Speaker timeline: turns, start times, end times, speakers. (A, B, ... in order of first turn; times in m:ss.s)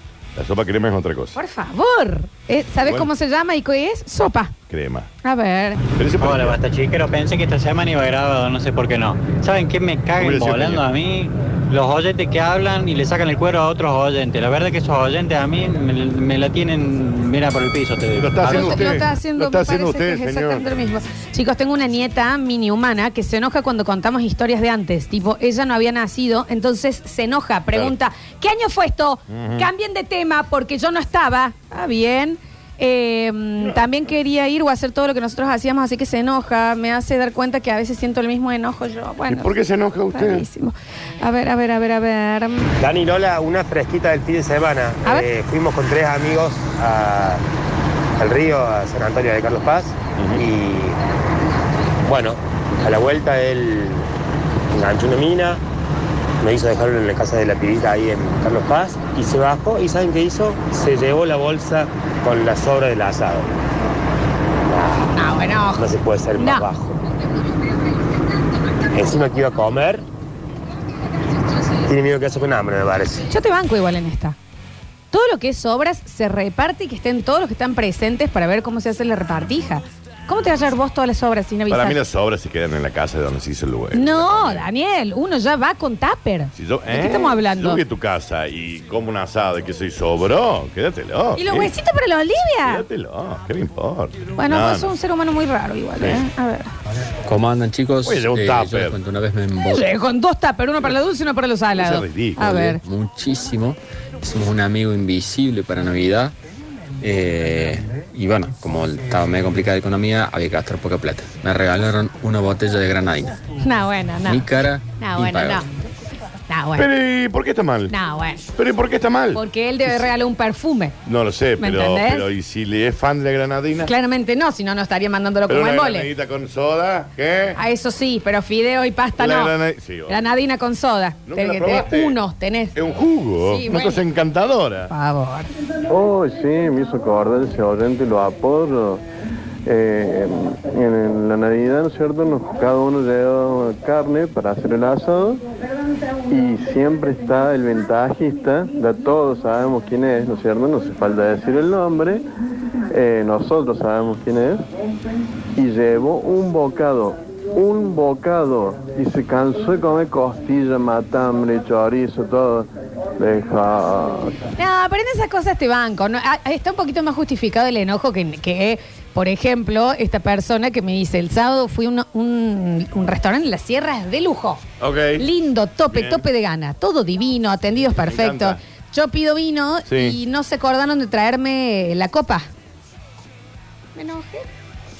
0:00.4-0:01.4 A
0:01.3-0:04.5 B
0:02.8-0:03.1 A
0:04.7-0:05.1 A
0:05.2-0:05.8 B
0:06.0-0:06.6 A
0:06.2-0:18.7 C
0:10.2-0:10.8 A
0:18.2-0:20.7 A
0:18.4-0:39.5 B
0:29.3-0:29.7 A
0:39.3-0:40.4 A
0:40.1-0:42.7 B
0:42.8-0:47.4 D
0:48.2-0:51.0 D
0:52.0-0:54.1 D
0:54.7-0:55.6 D
0:56.4-1:03.5 D
1:04.7-1:05.1 D
1:05.1-1:05.8 B
1:05.7-1:07.0 D
1:06.4-1:06.7 B
1:08.9-1:10.0 D
1:11.8-1:13.3 D
1:13.3-1:14.4 B
1:15.1-1:22.0 B
1:21.7-1:24.7 A
1:23.9-1:27.8 B
1:26.5-1:31.7 A
1:31.4-1:32.8 B
1:32.6-1:34.9 A
1:34.4-1:36.7 B
1:37.2-1:39.8 E
1:38.0-1:39.0 A
1:39.7-1:42.8 B
1:41.8-1:42.8 A
1:42.7-1:46.3 E
1:47.0-1:53.4 E
1:53.6-1:55.7 B
1:54.2-1:55.6 E
1:56.5-1:56.9 B
1:56.8-1:57.9 A
1:57.9-1:58.4 B
1:58.6-2:00.1 A
1:59.3-2:00.9 B
2:01.0-2:03.9 A
2:01.6-2:02.3 B
2:03.8-2:06.1 B
2:05.5-2:07.6 A
2:07.6-2:09.5 B
2:09.2-2:10.3 A
2:10.1-2:12.8 B
2:11.3-2:12.2 A
2:12.7-2:14.9 A
2:13.4-2:14.0 B
2:14.9-2:15.5 B
2:15.9-2:19.0 F
2:19.6-2:25.4 F
2:26.3-2:32.2 F
2:32.9-2:34.6 F
2:35.5-2:44.4 F
2:44.6-2:54.6 B
2:54.8-2:55.2 A
2:55.2-3:02.5 B
2:55.9-2:56.2 A
2:57.9-2:58.6 A
2:59.9-3:00.2 A
3:03.9-3:04.5 B